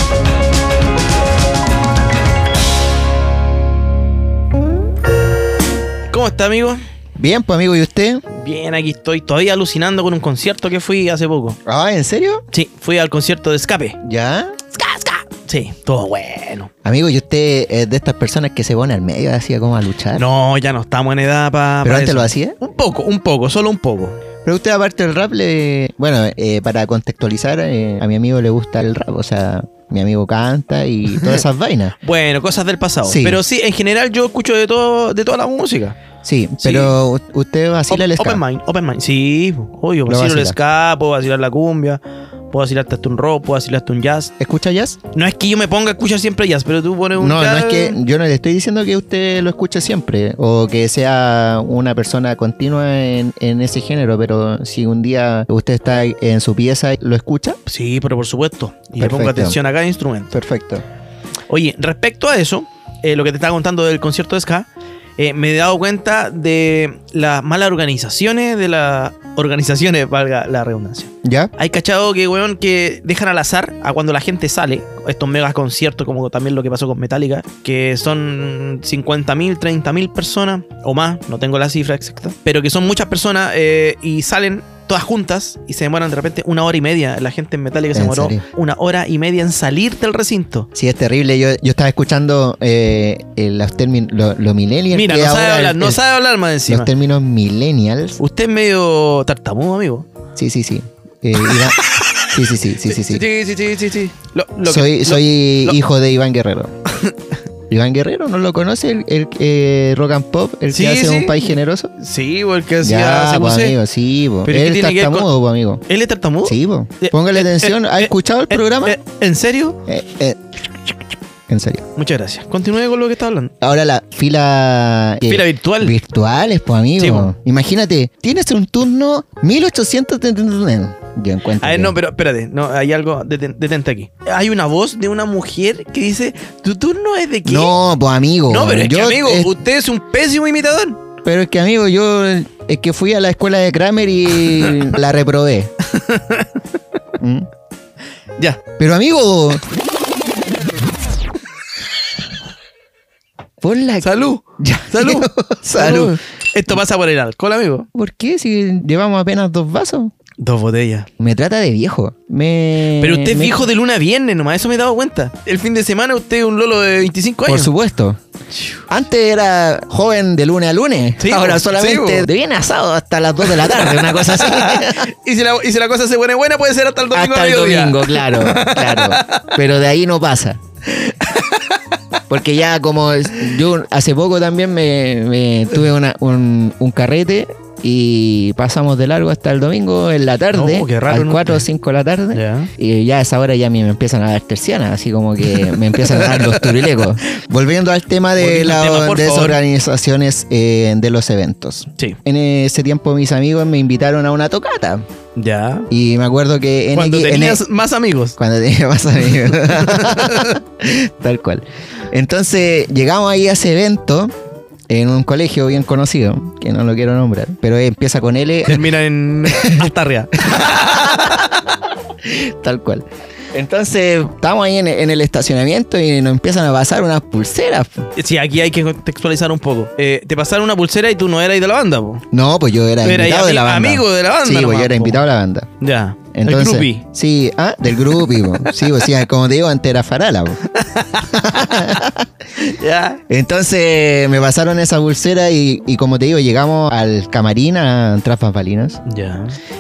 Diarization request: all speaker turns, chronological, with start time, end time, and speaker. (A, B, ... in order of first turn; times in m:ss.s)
0:06.1-0:06.8 A
0:07.2-0:08.3 B
0:08.3-0:11.6 A
0:11.7-0:12.4 B
0:12.5-0:14.0 A
0:14.0-0:14.6 B
0:14.7-0:16.7 A
0:16.8-0:20.3 B
0:20.1-0:24.2 A
0:21.8-0:22.6 B
0:24.4-0:32.0 B
0:31.1-0:31.4 A
0:32.0-0:36.0 A
0:33.0-0:33.4 B
0:36.2-0:38.4 B
0:36.6-0:37.0 A
0:37.9-0:44.3 A
0:40.1-0:40.6 B
0:44.4-0:45.0 B
0:45.1-0:48.0 A
0:47.2-0:57.6 B
0:57.7-1:00.3 A
0:59.0-0:59.6 B
1:00.3-1:00.8 B
1:01.5-1:30.7 A
1:11.2-1:11.5 B
1:27.9-1:28.4 B
1:30.8-1:36.0 B
1:34.9-1:36.9 A
1:36.7-1:38.2 B
1:38.2-1:40.1 A
1:40.4-1:43.2 B
1:42.9-1:45.8 A
1:44.6-1:46.7 B
1:47.7-1:51.9 B
1:50.7-1:53.8 A
1:52.8-1:55.8 B
1:54.4-1:55.3 A
1:55.9-1:59.8 A
1:56.4-1:59.0 B
1:59.9-2:00.4 B
2:01.5-2:01.8 B
2:02.0-2:03.5 A
2:03.6-2:12.0 B
2:05.3-2:06.0 A
2:07.0-2:07.3 A
2:11.6-2:17.8 A
2:17.4-2:19.5 B
2:18.5-2:21.0 A
2:21.2-2:25.7 B
2:24.5-2:24.8 A
2:25.9-2:26.5 A
2:27.2-2:27.5 B
2:28.8-2:29.6 B
2:33.6-2:36.2 B
2:34.0-2:37.9 A
2:37.9-2:40.1 B
2:40.4-2:41.1 A
2:41.2-2:43.6 B
2:43.0-2:47.7 A
2:47.5-2:48.2 B
2:48.6-2:48.8 A
2:48.9-2:55.1 B
2:51.2-2:52.3 A
2:53.4-2:59.5 A
2:57.1-3:00.6 B
3:01.0-3:01.8 A
3:02.3-3:25.0 B
3:10.5-3:11.7 A
3:12.3-3:12.7 A
3:15.5-3:17.1 A
3:18.4-3:19.6 A
3:25.4-3:25.9 A
3:25.9-3:27.6 B
3:26.9-3:28.4 A
3:28.4-3:34.3 B
3:29.4-3:30.6 A
3:34.9-3:38.9 B
3:38.7-3:41.6 A
3:39.5-3:39.9 B
3:40.4-3:41.4 B
3:42.2-3:48.1 B
3:48.2-3:52.2 A
3:52.3-3:55.7 B
3:53.0-3:55.2 A
3:55.8-3:57.0 A
3:56.3-4:00.6 B
3:58.1-3:59.1 A
4:00.7-4:01.8 A
4:01.3-4:02.3 B
4:02.7-4:03.2 A
4:03.3-4:09.0 B
4:09.1-4:09.6 A